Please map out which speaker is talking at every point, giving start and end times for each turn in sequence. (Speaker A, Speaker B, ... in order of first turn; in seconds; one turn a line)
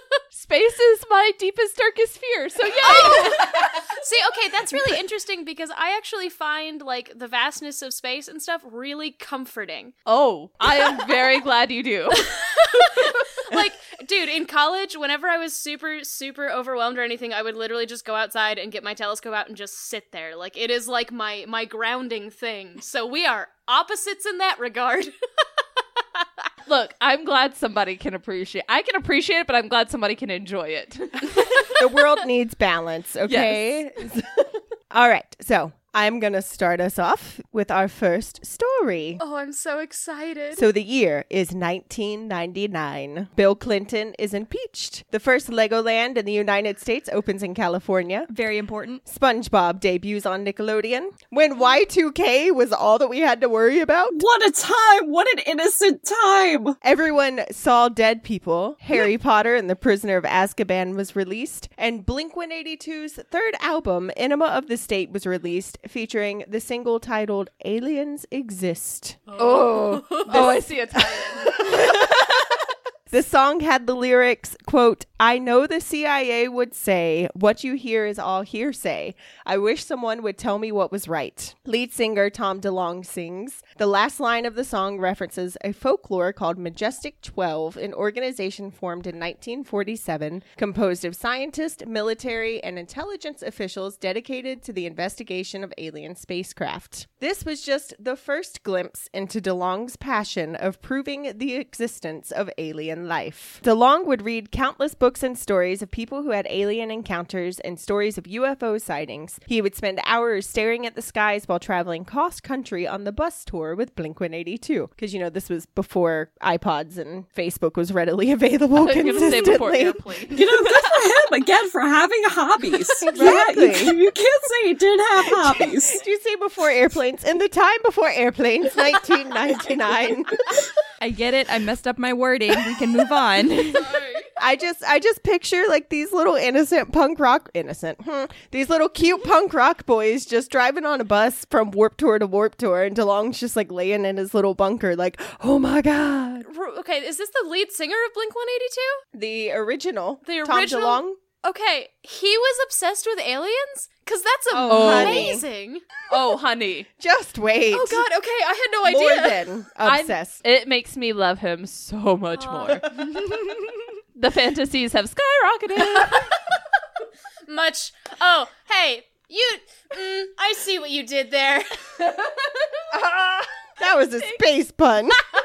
Speaker A: 0.3-3.5
Speaker B: 2.6-9.9
Speaker C: 3.0-3.4
Speaker A: 10.1-12.4
Speaker B: 10.7-11.0
Speaker B: 12.2-25.1
Speaker A: 26.7-31.8
Speaker C: 31.7-39.2
Speaker A: 33.3-33.7
Speaker B: 39.2-40.7
Speaker C: 40.5-48.3
Speaker D: 48.3-49.0
Speaker C: 49.0-54.2
Speaker E: 54.1-56.8
Speaker C: 56.8-69.3
Speaker B: 69.3-70.0
Speaker A: 69.4-71.9
Speaker C: 70.1-72.5
Speaker C: 73.1-120.6
Speaker A: 118.8-120.5
Speaker E: 120.3-126.0
Speaker C: 123.1-124.0
Speaker C: 125.3-130.6
Speaker D: 131.0-134.0
Speaker A: 133.8-134.3
Speaker C: 134.4-146.5
Speaker B: 146.4-149.0
Speaker C: 149.1-151.2
Speaker B: 150.2-155.8
Speaker C: 154.5-155.4
Speaker A: 154.7-155.4
Speaker A: 156.1-156.9
Speaker C: 157.0-158.1
Speaker B: 157.7-159.5
Speaker C: 158.8-160.4
Speaker A: 159.8-166.4
Speaker B: 162.3-162.8
Speaker B: 167.5-172.0
Speaker A: 172.1-172.5
Speaker C: 172.9-175.2